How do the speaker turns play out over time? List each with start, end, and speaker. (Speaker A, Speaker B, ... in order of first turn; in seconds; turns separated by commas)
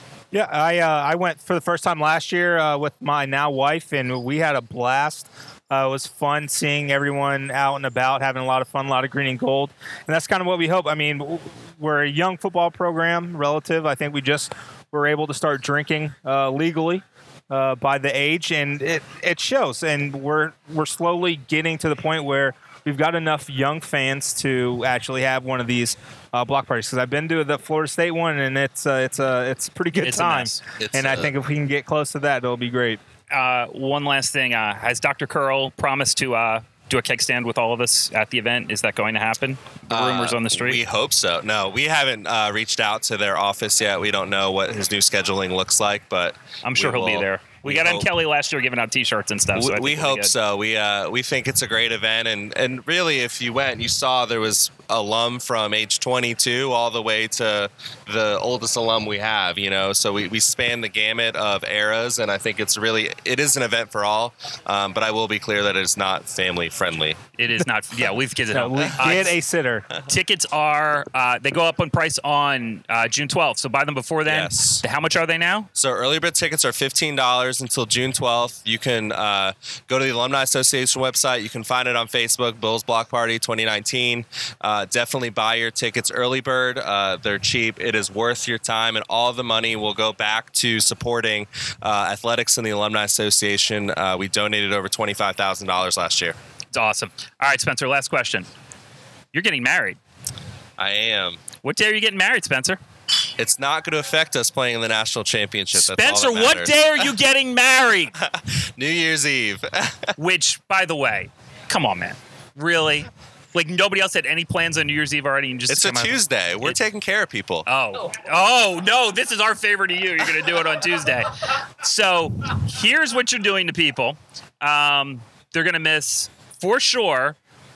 Speaker A: 0.3-33.0, Speaker B: 30.0-30.6, Speaker C: 30.8-31.3, Speaker B: 33.3-40.8, Speaker C: 39.9-48.1, Speaker B: 46.6-50.3, Speaker C: 49.5-67.2, Speaker B: 67.4-69.3, Speaker A: 68.5-69.9, Speaker B: 70.0-75.7, Speaker C: 74.2-74.5, Speaker C: 75.8-96.4, Speaker B: 96.7-98.5, Speaker B: 99.3-100.0, Speaker C: 100.8-101.4, Speaker B: 101.6-102.8, Speaker C: 103.4-107.0, Speaker B: 105.7-108.1, Speaker C: 108.3-110.1, Speaker B: 110.2-116.8, Speaker C: 115.7-117.7, Speaker B: 117.7-127.3